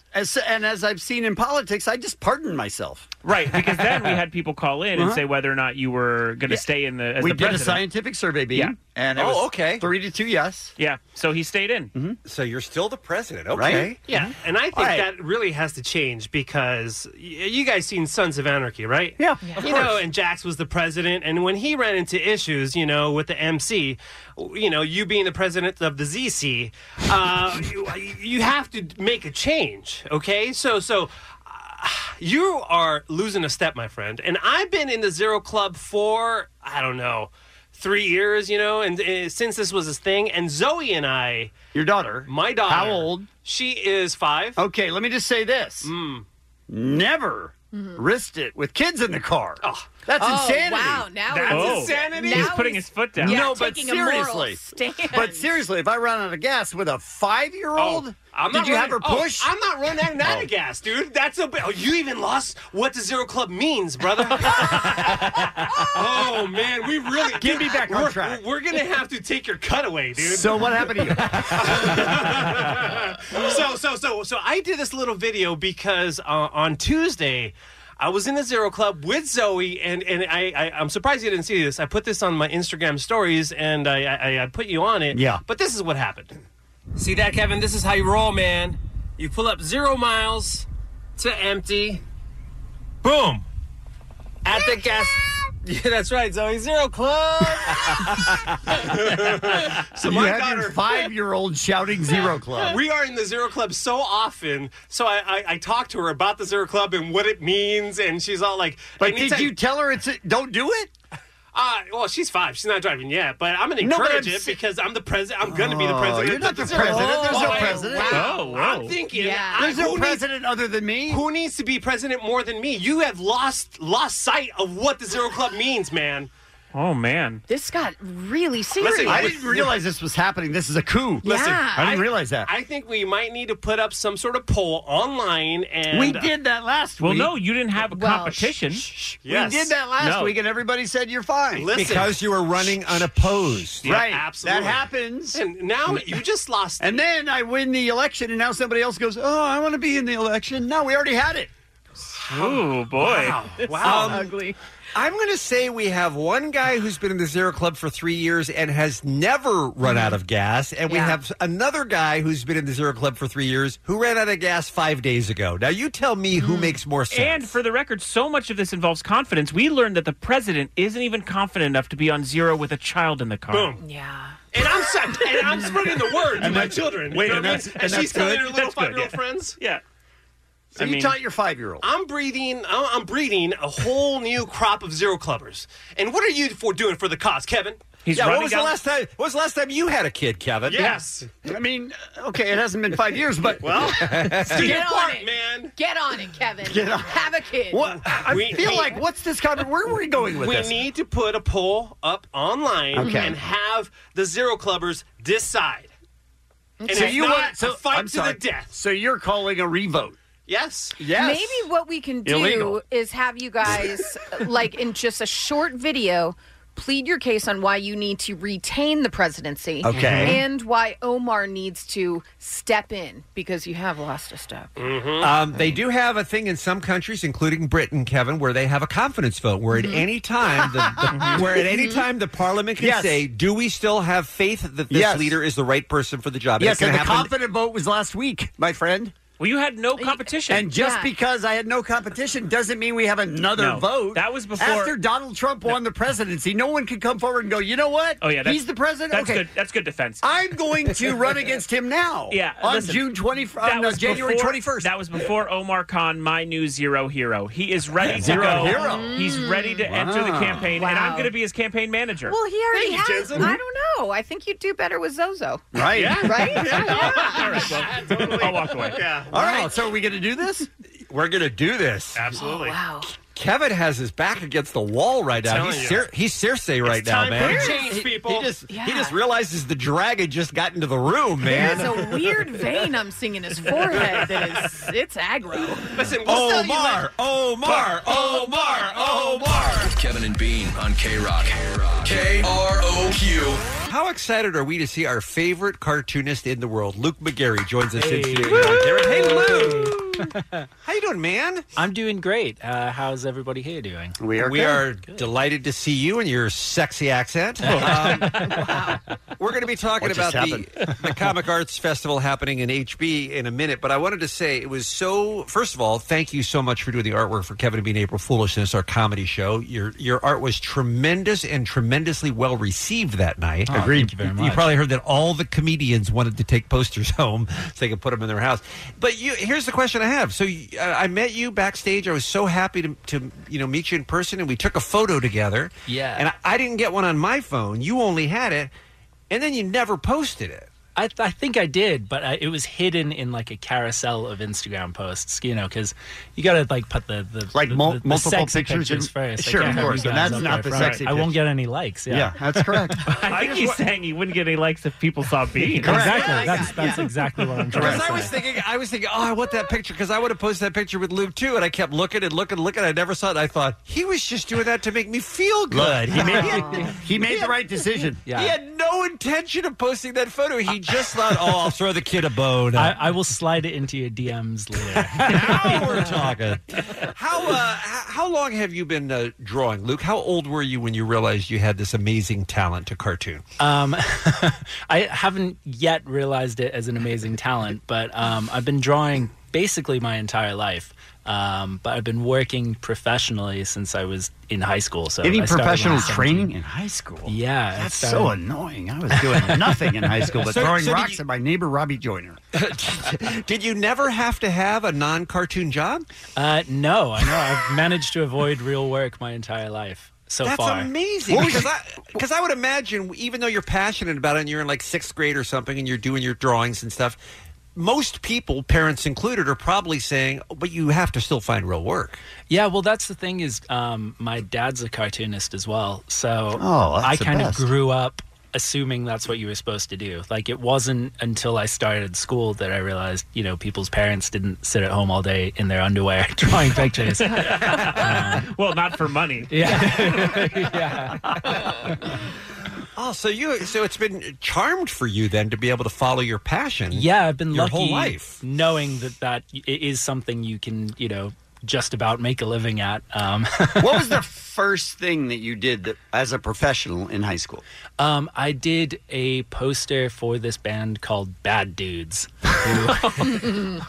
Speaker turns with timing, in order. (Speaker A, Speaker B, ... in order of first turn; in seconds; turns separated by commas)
Speaker A: 0.1-3.1, Speaker B: 3.2-7.9, Speaker A: 4.9-5.2, Speaker A: 7.2-10.7, Speaker C: 9.1-9.8, Speaker B: 10.8-11.9, Speaker C: 12.2-14.0, Speaker A: 13.5-14.0, Speaker D: 14.1-41.6, Speaker A: 14.7-15.1, Speaker A: 19.2-19.9, Speaker A: 41.7-43.3, Speaker D: 42.2-44.6, Speaker A: 44.5-45.9, Speaker D: 45.8-46.2, Speaker A: 46.7-51.1, Speaker E: 47.7-48.0, Speaker D: 49.6-49.9, Speaker E: 50.2-55.5, Speaker D: 51.3-52.4, Speaker B: 51.5-53.5, Speaker A: 53.2-60.5, Speaker D: 57.7-86.4, Speaker A: 67.2-68.4, Speaker A: 70.2-72.3, Speaker A: 85.1-85.4, Speaker D: 87.0-90.7, Speaker D: 91.2-92.0, Speaker D: 93.0-93.4, Speaker D: 94.4-101.1, Speaker A: 99.9-102.8, Speaker D: 102.6-109.5, Speaker A: 109.0-110.9, Speaker D: 111.5-120.2, Speaker A: 113.8-114.6, Speaker A: 115.4-118.3, Speaker E: 116.7-118.6, Speaker B: 118.1-119.0, Speaker E: 119.1-119.9, Speaker A: 119.5-121.2, Speaker D: 121.1-126.3, Speaker B: 126.7-127.4, Speaker E: 127.5-129.4, Speaker D: 128.8-129.8, Speaker A: 129.1-132.5, Speaker E: 131.2-132.0, Speaker D: 131.2-136.3, Speaker A: 135.9-137.3, Speaker B: 137.0-138.9, Speaker E: 137.9-138.6, Speaker A: 139.1-141.7, Speaker D: 139.2-139.8, Speaker B: 140.0-140.3, Speaker D: 141.5-142.2, Speaker C: 141.7-143.9, Speaker A: 143.8-146.0, Speaker D: 143.8-147.0, Speaker A: 146.8-151.5, Speaker B: 152.2-153.5, Speaker D: 152.2-154.2, Speaker C: 153.8-154.3, Speaker E: 153.8-154.6, Speaker C: 154.9-167.5, Speaker E: 159.8-160.1, Speaker E: 160.9-161.2, Speaker E: 166.4-166.7, Speaker B: 167.1-173.7, Speaker D: 173.5-173.8, Speaker E: 173.8-174.4, Speaker D: 174.5-179.5, Speaker E: 175.2-175.5, Speaker A: 176.3-178.6, Speaker B: 177.9-179.8, Speaker A: 180.7-181.8, Speaker B: 180.8-181.1, Speaker D: 181.8-187.8, Speaker B: 188.0-188.8, Speaker C: 188.1-191.0, Speaker D: 190.7-191.3, Speaker A: 191.4-194.6, Speaker D: 193.6-195.7, Speaker C: 193.9-194.7, Speaker E: 194.5-197.9, Speaker A: 196.6-200.8, Speaker D: 198.1-199.0, Speaker D: 200.3-205.9, Speaker A: 202.9-203.4, Speaker E: 203.0-203.3, Speaker E: 206.8-207.5, Speaker D: 206.8-208.7, Speaker A: 206.9-210.2, Speaker D: 210.5-211.0, Speaker A: 211.0-211.6, Speaker E: 211.2-224.7, Speaker A: 212.2-212.8, Speaker A: 219.8-220.4, Speaker C: 219.9-220.4, Speaker D: 224.8-225.3, Speaker C: 225.2-237.3, Speaker E: 229.7-230.0, Speaker E: 231.5-232.0, Speaker A: 232.8-233.2, Speaker A: 234.9-235.4, Speaker A: 236.6-239.1, Speaker B: 239.4-240.7, Speaker E: 240.0-241.1, Speaker A: 240.5-249.4, Speaker B: 243.6-244.9, Speaker B: 248.2-250.2, Speaker A: 250.2-254.9, Speaker B: 252.3-253.1, Speaker B: 253.6-262.4, Speaker A: 258.0-259.2, Speaker E: 258.7-259.8, Speaker A: 259.9-260.7, Speaker E: 260.8-261.3, Speaker E: 262.3-267.7, Speaker D: 262.7-263.6, Speaker A: 265.7-266.6, Speaker D: 265.8-269.3, Speaker B: 266.7-269.0, Speaker A: 269.3-270.7, Speaker E: 269.4-269.6, Speaker C: 269.4-269.7, Speaker C: 271.1-272.3, Speaker D: 272.1-272.8, Speaker E: 272.3-273.1, Speaker C: 273.3-282.3, Speaker D: 275.4-276.1, Speaker D: 276.8-278.5, Speaker E: 277.4-277.9, Speaker E: 278.7-279.1, Speaker E: 281.4-285.9, Speaker D: 284.1-284.6, Speaker D: 285.9-287.1, Speaker C: 286.2-289.9, Speaker D: 287.6-288.4, Speaker F: 289.9-293.8, Speaker C: 292.1-292.5, Speaker C: 293.9-300.3, Speaker G: 297.9-300.6, Speaker C: 300.8-301.7, Speaker G: 301.8-304.2, Speaker A: 304.2-304.9, Speaker C: 304.4-338.7, Speaker G: 307.7-308.9, Speaker A: 310.0-310.7, Speaker G: 323.7-324.7, Speaker A: 323.7-324.1, Speaker G: 335.9-336.2, Speaker C: 339.3-340.7, Speaker G: 340.9-352.8, Speaker A: 347.5-351.3, Speaker B: 350.7-351.0, Speaker A: 352.1-353.7, Speaker B: 353.1-356.3, Speaker A: 355.8-357.0, Speaker G: 355.8-358.3, Speaker E: 355.9-357.1, Speaker A: 357.7-358.3, Speaker C: 357.7-366.9, Speaker A: 365.7-368.3, Speaker E: 366.2-366.9, Speaker G: 368.2-368.6, Speaker C: 368.3-373.0, Speaker G: 372.7-376.1, Speaker C: 375.1-383.4, Speaker G: 383.6-396.5, Speaker A: 395.2-402.4, Speaker G: 397.2-398.4, Speaker G: 399.1-399.9, Speaker C: 400.4-401.2, Speaker C: 402.5-406.1, Speaker G: 406.4-410.9, Speaker C: 410.4-417.2, Speaker A: 411.3-412.2, Speaker C: 417.7-422.2, Speaker G: 422.5-438.5, Speaker A: 426.6-427.6, Speaker B: 437.3-440.1, Speaker G: 439.5-441.9, Speaker C: 442.9-448.4, Speaker G: 446.9-454.1, Speaker A: 453.8-457.6, Speaker G: 458.0-463.7